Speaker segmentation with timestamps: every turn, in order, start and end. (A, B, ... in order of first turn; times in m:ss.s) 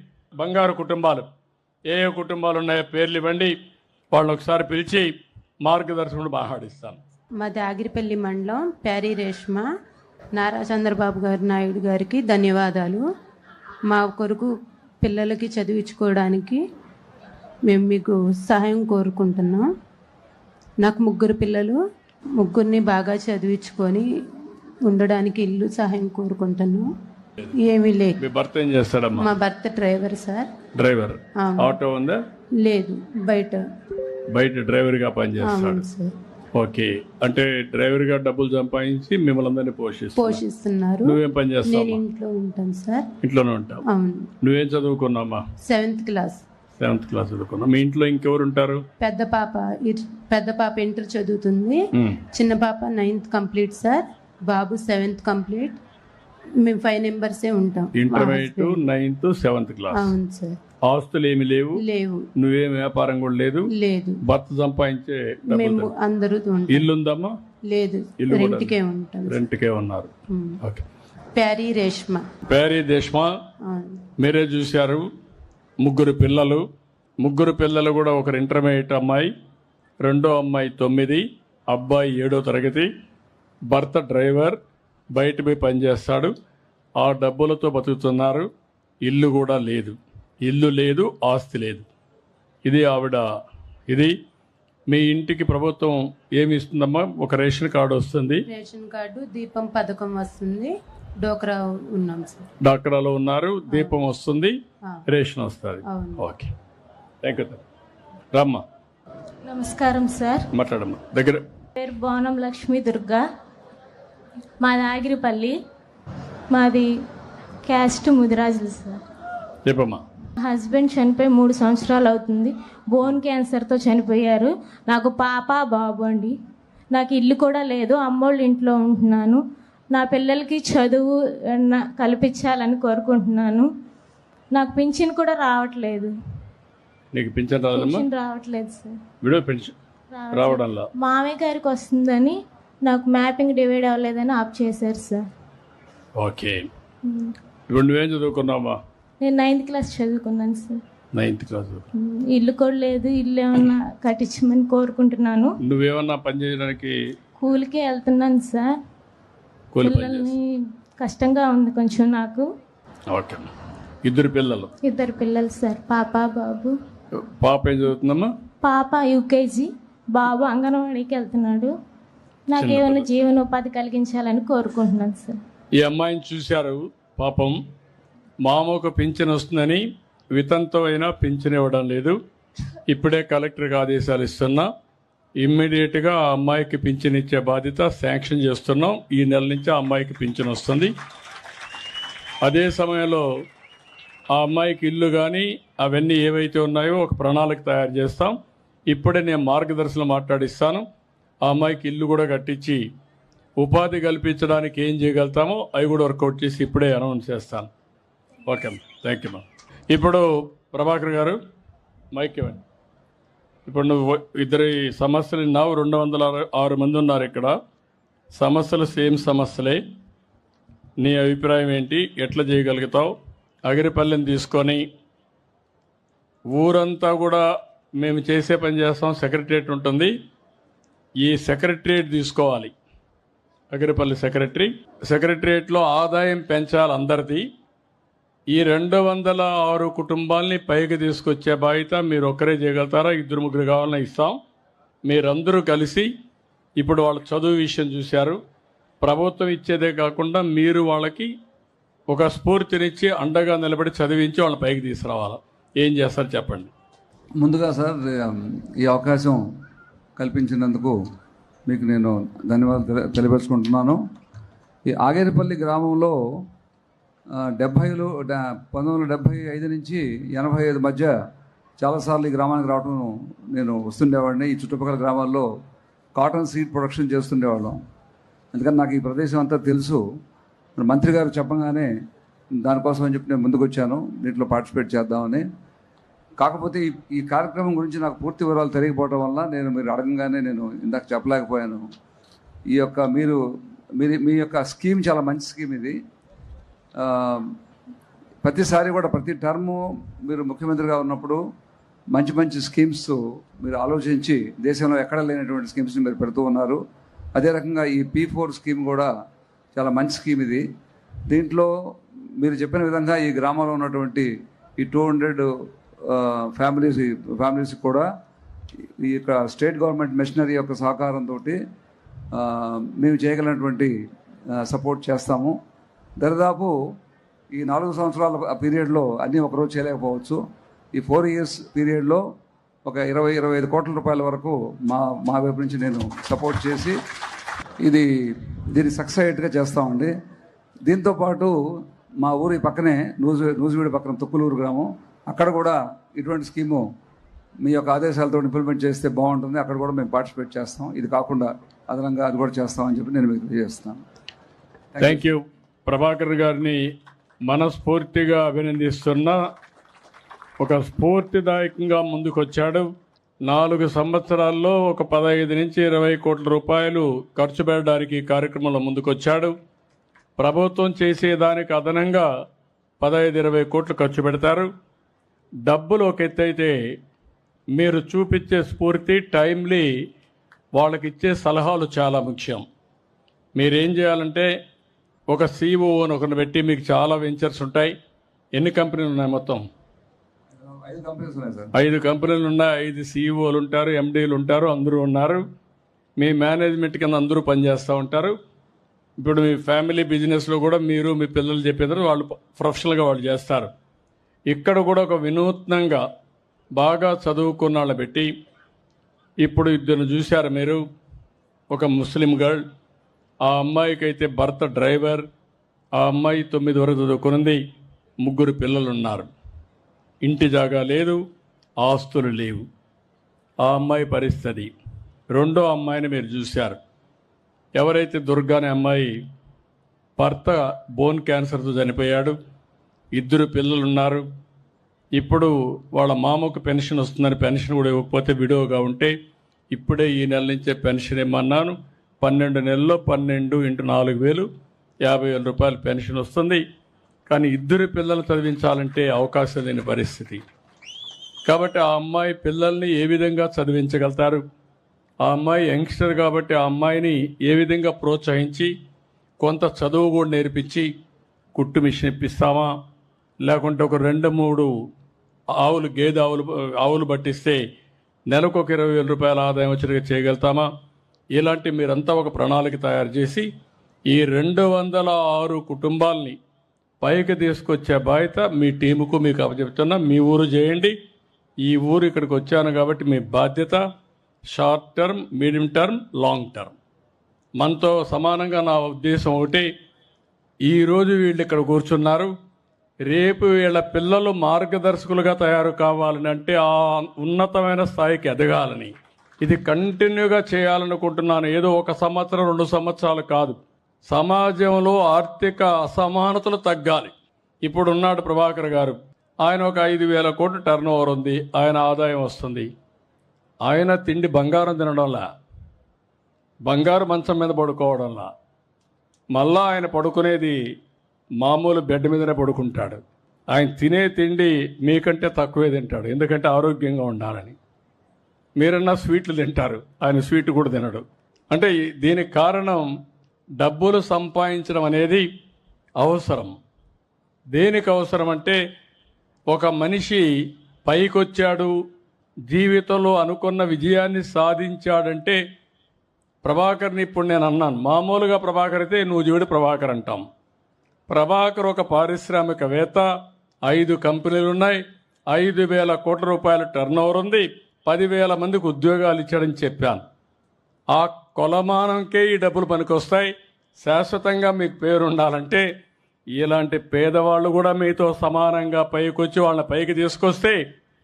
0:00.4-0:01.3 A
0:01.9-0:03.5 A
0:04.1-0:07.0 A
0:07.4-0:09.7 B
0:10.3-0:13.0 B
0:13.9-0:16.6 B
0:17.7-0:19.7 B
0:20.8-0:21.8 B
0:22.4-0:24.1 B
0:24.8-0:26.9 B
0:27.6-0:28.2 B
0:28.2-0:29.3 A
0:29.2-0:30.5 B
0:30.7-0:32.2 A
0:31.4-0:31.8 B
0:32.6-0:33.6 B
0:34.3-0:35.8 A
0:35.4-0:36.1 B
0:36.6-0:40.4 A
0:40.2-0:43.1 B
0:41.0-0:42.0 A
0:43.2-0:43.8 A
0:43.9-0:44.3 B
0:44.4-0:45.4 A
0:45.6-0:46.4 B
0:46.8-0:48.8 A
0:49.0-0:51.8 B
0:51.9-0:52.2 A
0:52.3-0:55.8 B
0:56.6-0:58.8 B
0:57.9-1:00.1 A
0:59.9-1:00.6 B
1:00.8-1:01.8 A
1:01.8-1:02.3 B
1:02.4-1:03.7 A
1:03.7-1:04.2 B
1:04.2-1:05.9 A
1:05.5-1:06.9 B
1:06.7-1:07.3 A
1:07.7-1:09.4 B
1:08.2-1:08.7 A
1:09.3-1:10.8 A
1:10.3-1:10.6 B
1:11.4-1:12.2 B
1:12.5-1:13.3 A
1:13.6-1:14.0 B
1:14.2-1:15.1 A
1:15.8-1:16.6 A
1:17.2-1:19.3 A
1:20.0-1:22.9 A
1:23.7-1:24.6 A
1:25.1-1:26.3 A
1:27.0-1:28.5 A
1:29.0-1:31.8 A
1:32.6-1:33.2 A
1:33.9-1:34.1 A
1:34.9-1:38.4 A
1:38.5-1:42.5 B
1:42.6-1:44.6 A
1:43.7-1:44.0 B
1:45.1-1:46.5 A
1:45.9-1:46.2 B
1:47.2-1:47.6 A
1:48.3-1:48.6 A
1:49.5-1:50.5 C
1:50.5-1:51.4 A
1:51.8-1:53.2 C
1:54.6-1:55.6 C
1:56.5-1:56.9 C
1:57.6-1:59.0 C
1:59.6-2:00.0 A
2:00.4-2:06.4 C
2:06.9-2:09.4 C
2:09.9-2:13.7 C
2:14.5-2:16.1 C
2:17.1-2:18.0 A
2:17.7-2:19.0 C
2:19.2-2:19.7 A
2:20.1-2:25.3 C
2:20.3-2:20.9 A
2:26.2-2:26.7 A
2:27.0-2:27.3 C
2:27.7-2:28.8 A
2:29.2-2:30.8 C
2:31.1-2:31.8 A
2:32.0-2:35.6 C
2:35.6-2:37.0 A
2:37.4-2:38.8 C
2:39.7-2:40.3 A
2:39.8-2:42.5 C
2:43.1-2:43.5 A
2:44.0-2:44.7 A
2:44.8-2:46.8 C
2:47.1-2:48.3 A
2:48.6-2:51.7 C
2:52.5-2:55.4 C
2:52.6-2:53.0 A
2:55.8-2:57.6 A
2:58.4-2:59.8 A
3:00.3-3:02.2 A
3:02.9-3:04.7 A
3:05.4-3:10.9 A
3:12.4-3:13.2 A
3:14.3-3:18.4 A
3:18.9-3:20.8 A
3:21.4-3:22.8 A
3:23.6-3:27.7 A
3:28.5-3:31.4 A
3:32.1-3:32.6 A
3:33.6-3:37.5 A
3:38.3-3:39.8 A
3:41.0-3:43.1 A
3:43.6-3:44.8 A
3:46.5-3:47.4 A
3:48.0-3:50.1 A
3:51.2-3:52.7 A
3:53.7-3:57.5 A
3:58.5-4:04.4 A
4:05.1-4:06.1 A
4:06.8-4:08.4 A
4:09.0-4:11.3 A
4:12.1-4:16.7 A
4:17.4-4:19.4 D
4:20.2-4:21.0 D
4:21.7-4:24.0 D
4:24.9-4:26.2 D
4:27.4-4:31.1 D
4:31.8-4:35.5 D
4:36.2-4:37.8 D
4:38.5-4:40.0 D
4:40.8-4:41.9 D
4:42.6-4:45.5 D
4:46.4-4:51.9 D
4:52.7-4:53.4 D
4:54.0-4:56.0 D
4:57.0-4:57.6 D
4:58.4-5:01.4 D
5:02.1-5:06.8 D
5:07.4-5:09.1 D
5:09.7-5:10.6 D
5:11.3-5:11.7 D
5:12.4-5:18.1 D
5:19.0-5:21.6 D
5:22.3-5:23.9 D
5:24.5-5:25.6 D
5:26.2-5:26.8 D
5:27.5-5:30.4 D
5:30.9-5:32.2 D
5:32.8-5:37.0 D
5:37.8-5:40.1 D
5:40.8-5:46.9 D
5:47.6-5:54.0 D
5:54.9-5:55.2 D
5:55.0-5:56.8 A
5:57.4-5:59.5 A
6:00.6-6:02.9 A
6:03.4-6:09.5 A
6:10.4-6:12.3 A
6:13.0-6:14.7 A
6:15.6-6:16.8 A
6:17.8-6:19.9 A
6:20.7-6:22.6 A
6:23.6-6:24.5 A
6:25.3-6:27.9 A
6:28.5-6:29.6 A
6:30.6-6:31.7 D
6:31.7-6:35.4 A
6:36.2-6:38.4 A
6:39.2-6:43.7 A
6:44.5-6:46.0 A
6:46.8-6:48.3 A
6:49.4-6:50.8 A
6:51.7-6:52.6 A
6:53.4-6:55.3 A
6:56.0-6:57.6 A
6:58.2-6:59.3 A
7:00.2-7:01.2 A
7:01.8-7:02.6 A
7:03.6-7:04.7 A
7:05.3-7:06.8 A
7:07.8-7:09.1 A
7:10.2-7:12.4 A
7:13.1-7:14.2 A
7:15.2-7:19.1 A
7:19.7-7:24.5 A
7:25.0-7:26.6 A
7:27.3-7:30.4 A
7:31.4-7:34.4 A
7:35.2-7:38.7 A
7:39.4-7:40.9 A
7:41.6-7:42.7 A
7:43.4-7:44.7 A
7:45.5-7:47.6 A
7:48.3-7:50.7 A
7:51.3-7:53.5 A
7:54.1-7:56.4 A
7:57.0-8:00.9 A
8:01.6-8:03.8 A
8:04.5-8:06.7 A
8:07.6-8:09.7 A
8:10.6-8:12.3 A
8:13.0-8:27.1 A
8:27.6-8:32.7 A
8:33.6-8:35.3 A
8:36.6-8:38.3 A
8:39.3-8:40.6 A
8:41.4-8:43.0 A
8:43.5-8:47.6 A
8:48.6-8:52.9 A
8:53.6-8:55.2 A
8:56.0-8:56.6 A
8:57.5-8:58.6 A
8:59.5-9:00.2 A
9:00.8-9:01.7 A
9:02.5-9:05.4 A
9:06.4-9:10.2 A
9:11.1-9:13.0 A
9:13.7-9:14.8 A
9:15.3-9:20.0 A
9:20.9-9:23.3 A
9:23.8-9:25.6 A
9:26.4-9:30.6 A